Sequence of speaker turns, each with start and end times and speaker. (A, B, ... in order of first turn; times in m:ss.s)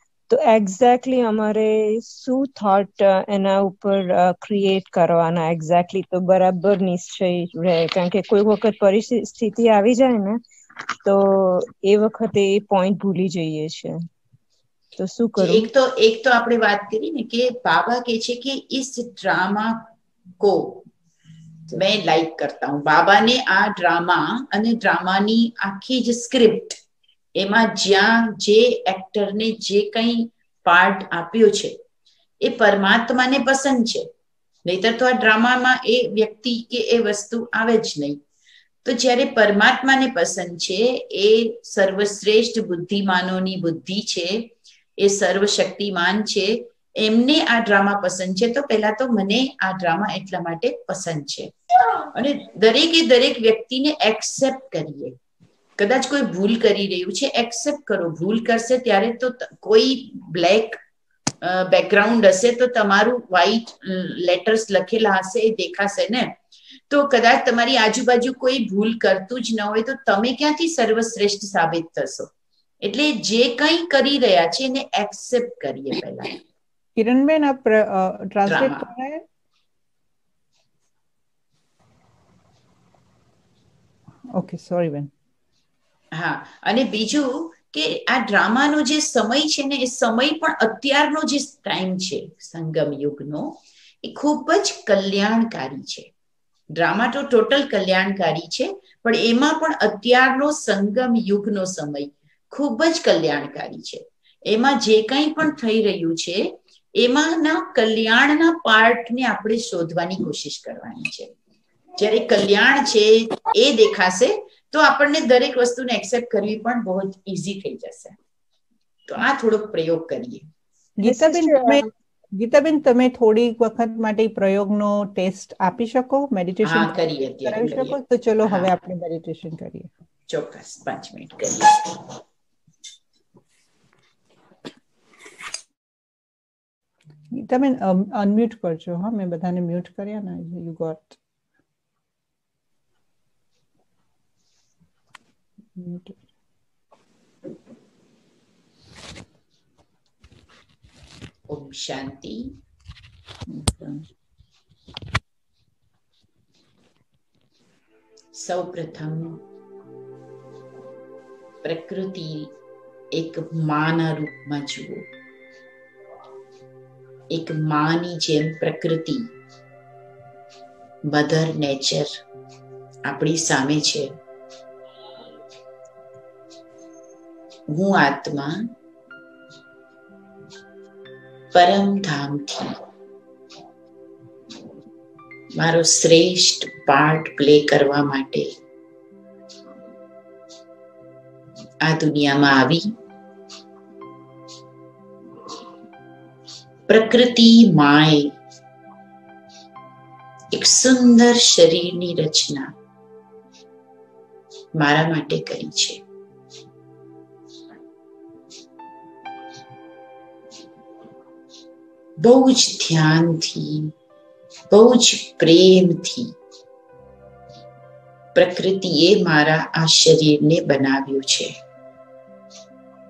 0:00.3-0:10.4 A
0:11.0-0:13.9 A
0:15.0-0:15.7 A
0:15.4-0:19.9 B
0:20.4-0:20.8 B
0:21.7-0:26.8 B
0:27.4-0:31.8 B
0:32.4-0:34.1 B
0:34.6-0:38.2 B
0:38.8-0:51.5 B
0:52.1-0:55.2 B
0:55.8-1:00.8 B
1:01.4-1:06.3 B
1:06.9-1:12.3 B
1:12.8-1:16.4 B
1:17.0-1:19.2 C
1:18.5-1:18.9 B
1:24.3-1:25.1 C
1:26.1-1:36.1 B
1:36.8-1:51.3 B
1:52.0-1:58.2 B
1:59.1-2:00.5 B
2:01.0-2:09.9 C
2:01.0-2:01.9 A
2:06.6-2:08.7 B
2:10.3-2:12.0 B
2:17.3-2:21.2 C
2:25.8-2:26.2 C
2:31.5-2:32.5 B
2:33.5-2:34.0 C
2:38.3-2:39.4 B
2:41.6-2:42.5 B
2:43.1-2:45.1 B
2:47.3-2:49.3 B
2:51.0-2:52.2 B
2:53.0-2:54.1 B
2:57.7-2:58.6 B
3:01.5-3:02.8 B
3:05.6-3:08.5 B
3:11.8-3:12.9 B
3:16.9-3:18.3 B
3:20.5-3:22.7 B
3:24.7-3:26.0 B
3:32.2-3:33.9 B
3:34.7-3:36.3 B
3:38.3-3:41.5 B